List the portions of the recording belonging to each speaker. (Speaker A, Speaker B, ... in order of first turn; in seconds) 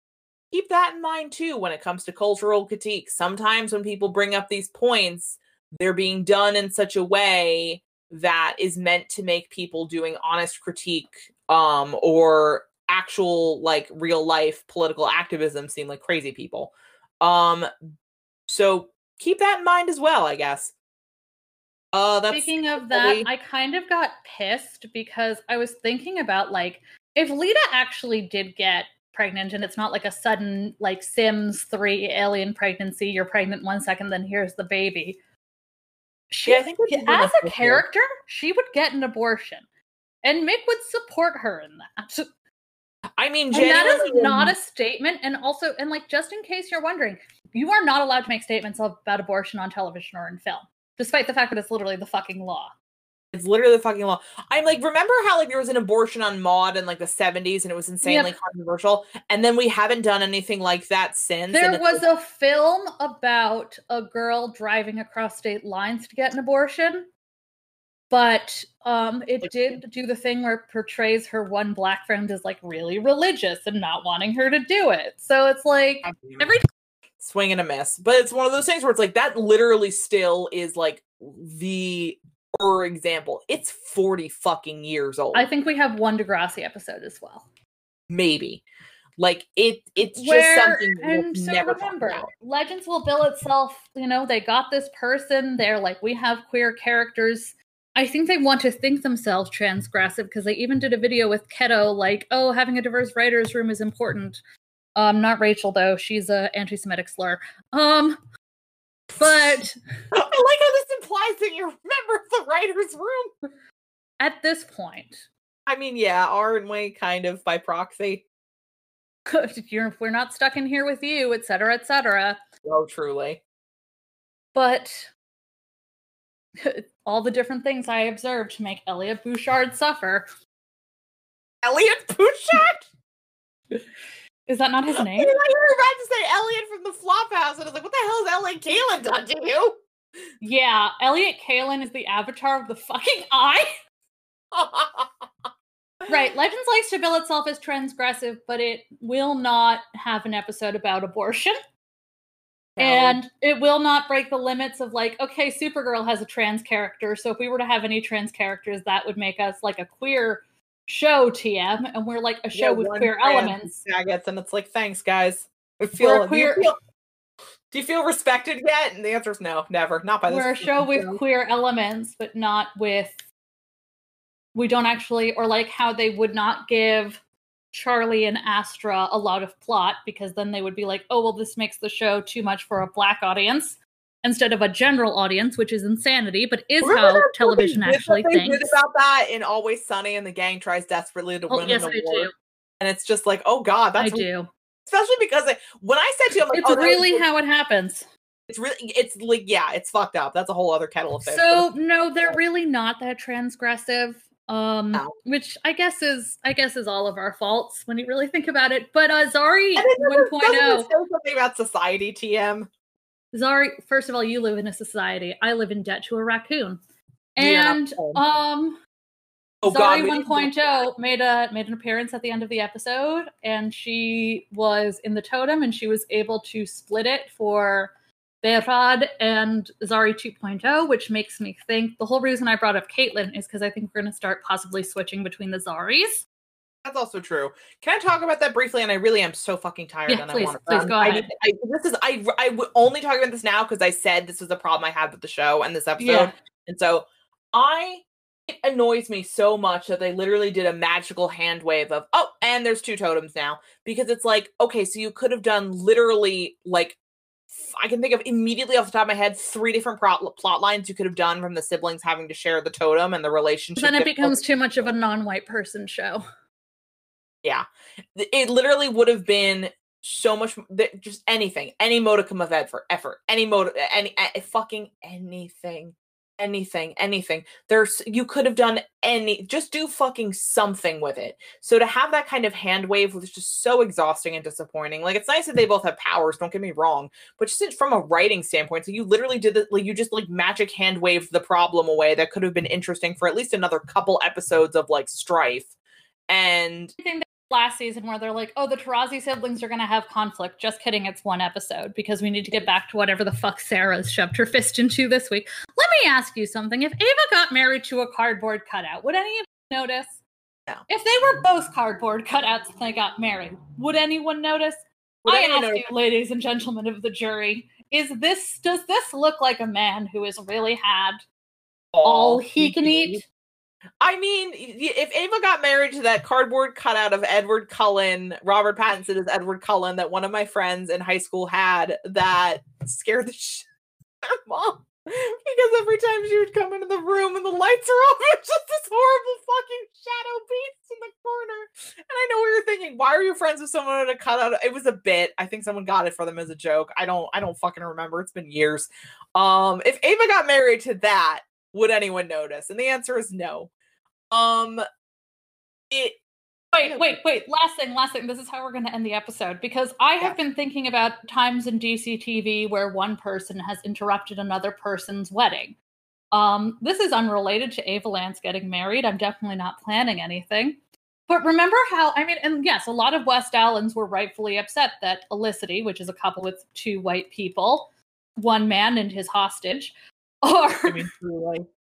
Speaker A: 0.5-17.7, 18.5-20.7, 21.9-23.3, 36.5-37.8, 43.2-44.5, 53.3-62.0, 69.4-69.8, 76.0-76.5, 77.2-85.5, 88.1-88.6, 89.2-92.3, 109.1-109.6, 110.1-113.3, 115.7-118.2, 122.6-123.4, 131.6-132.9, 134.9-139.8, 144.5-145.1, 152.8-153.2, 162.5-166.8, 167.7-171.2, 186.8-194.3, 194.8-197.2, 198.5-201.7, 209.8-212.7, 217.4-218.2, 219.6-220.9, 236.8-257.0, 257.5-264.4, 267.4-295.7, 296.3-296.9, 315.2-315.9, 321.9-323.2, 324.0-333.7, 334.2-353.7, 354.3-354.8, 355.9-356.2, 356.8-357.2, 380.8-381.6
Speaker B: 22.3-35.2, 36.3-39.6, 40.2-42.3, 43.5-52.7, 58.0-58.3, 61.5-67.1, 68.1-76.7, 85.3-87.5, 90.1-104.4, 104.9-108.2, 109.2-109.8, 114.2-115.3, 119.2-122.4, 124.5-125.1, 126.5-130.3, 134.5-135.3, 140.4-143.7, 146.1-151.6, 152.8-163.7, 166.0-166.7, 170.3-173.2, 174.5-177.2, 177.7-188.8, 191.5-192.3, 194.0-194.5, 196.5-198.1, 201.2-210.9, 213.3-216.8, 217.3-218.8, 219.7-236.2, 240.1-241.3, 246.0-246.3, 263.8-266.2, 297.0-310.2, 310.9-321.2, 322.0-323.2, 356.7-365.8, 366.3-381.1